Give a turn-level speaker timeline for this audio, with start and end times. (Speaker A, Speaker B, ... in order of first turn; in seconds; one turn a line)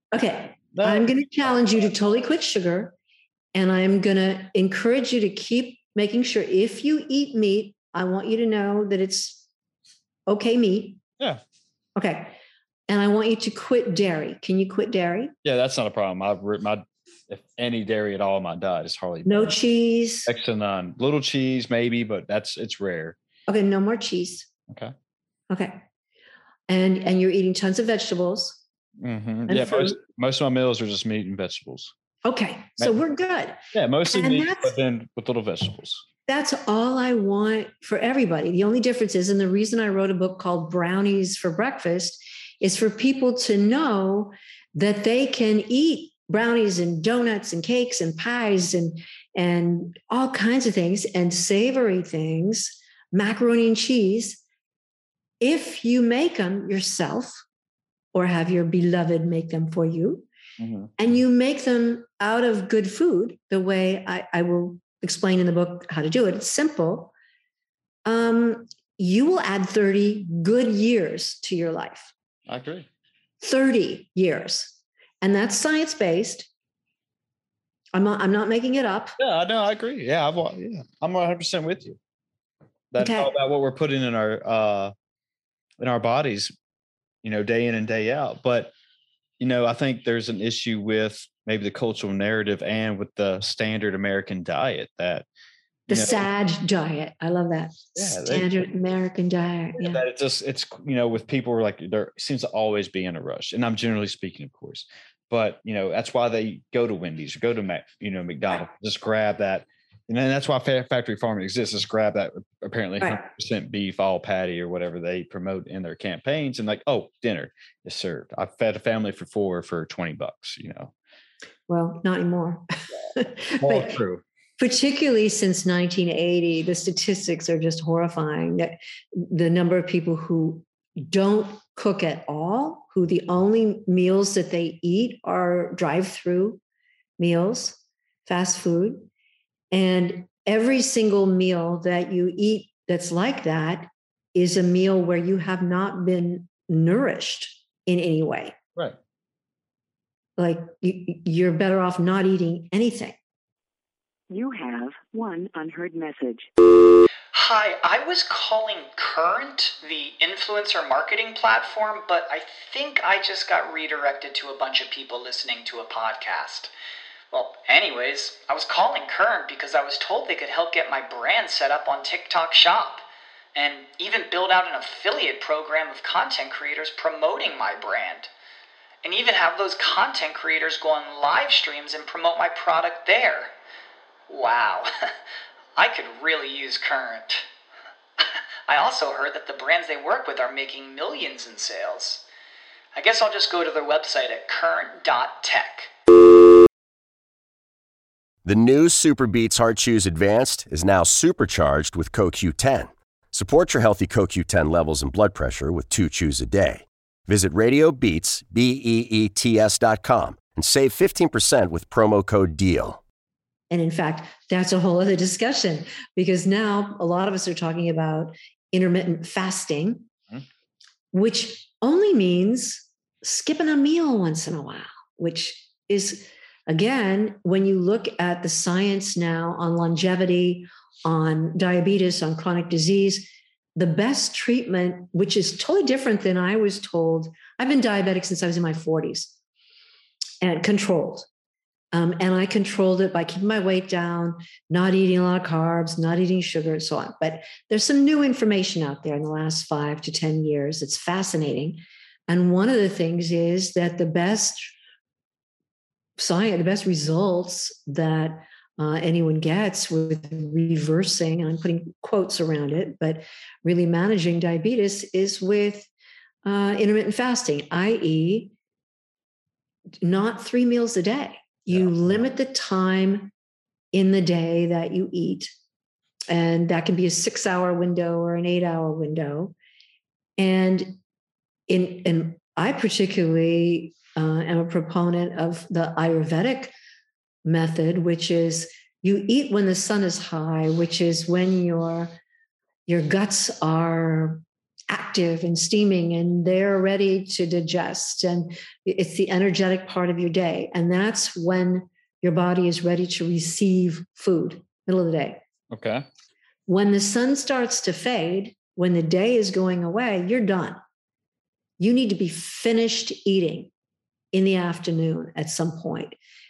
Speaker A: 0.1-2.9
Speaker B: 0.7-1.1
Speaker A: 3.5-9.4
Speaker A: 10.3-11.0
Speaker A: 11.9-12.4
Speaker A: 12.9-15.3
Speaker B: 15.4-19.5
Speaker A: 19.2-20.3
Speaker B: 20.3-23.1
Speaker A: 23.5-24.5
Speaker B: 24.7-24.9
Speaker A: 25.5-25.8
Speaker A: 26.7-28.6
Speaker B: 29.0-31.9
Speaker A: 29.5-30.0
Speaker A: 32.2-34.7
Speaker B: 33.7-36.0
Speaker A: 36.3-54.4
Speaker A: 55.4-57.4
Speaker A: 58.1-60.3
Speaker B: 60.6-60.9
Speaker A: 61.0-67.1
Speaker A: 68.0-72.1
Speaker B: 72.5-72.9
Speaker A: 73.4-76.5
Speaker A: 77.9-79.2
Speaker B: 79.2-82.0
Speaker B: 82.9-84.9
Speaker A: 83.0-83.3
Speaker B: 85.8-86.5
Speaker B: 87.2-88.7
Speaker B: 89.4-95.3
Speaker B: 95.9-96.2
Speaker A: 95.9-100.0
Speaker B: 98.0-98.7
Speaker B: 99.8-120.9
Speaker A: 113.0-113.2
Speaker A: 121.7-122.6
Speaker A: 123.1-124.0
Speaker B: 123.6-124.2
Speaker A: 124.6-136.6
Speaker A: 137.2-139.1
Speaker A: 139.7-148.6
Speaker A: 150.4-153.2
Speaker C: 154.3-156.5
Speaker D: 157.3-166.7
Speaker D: 167.3-178.3
Speaker D: 179.0-183.5
Speaker D: 184.3-185.1
Speaker D: 185.8-187.4
Speaker D: 188.7-192.2
Speaker D: 192.9-195.9
Speaker E: 198.4-213.0
Speaker A: 213.7-220.1
Speaker A: 221.1-239.3
Speaker A: 240.4-241.3
Speaker A: 241.9-254.7
Speaker A: 256.2-265.9
Speaker A: 266.4-268.5
Speaker A: 270.0-273.3
Speaker A: 273.9-275.5
Speaker A: 276.3-279.5
Speaker A: 280.4-281.0
Speaker A: 281.7-286.7
Speaker A: 287.4-292.1
Speaker A: 292.9-305.4
Speaker B: 305.7-306.1
Speaker A: 306.7-310.8
Speaker A: 311.8-313.7
Speaker A: 314.3-316.1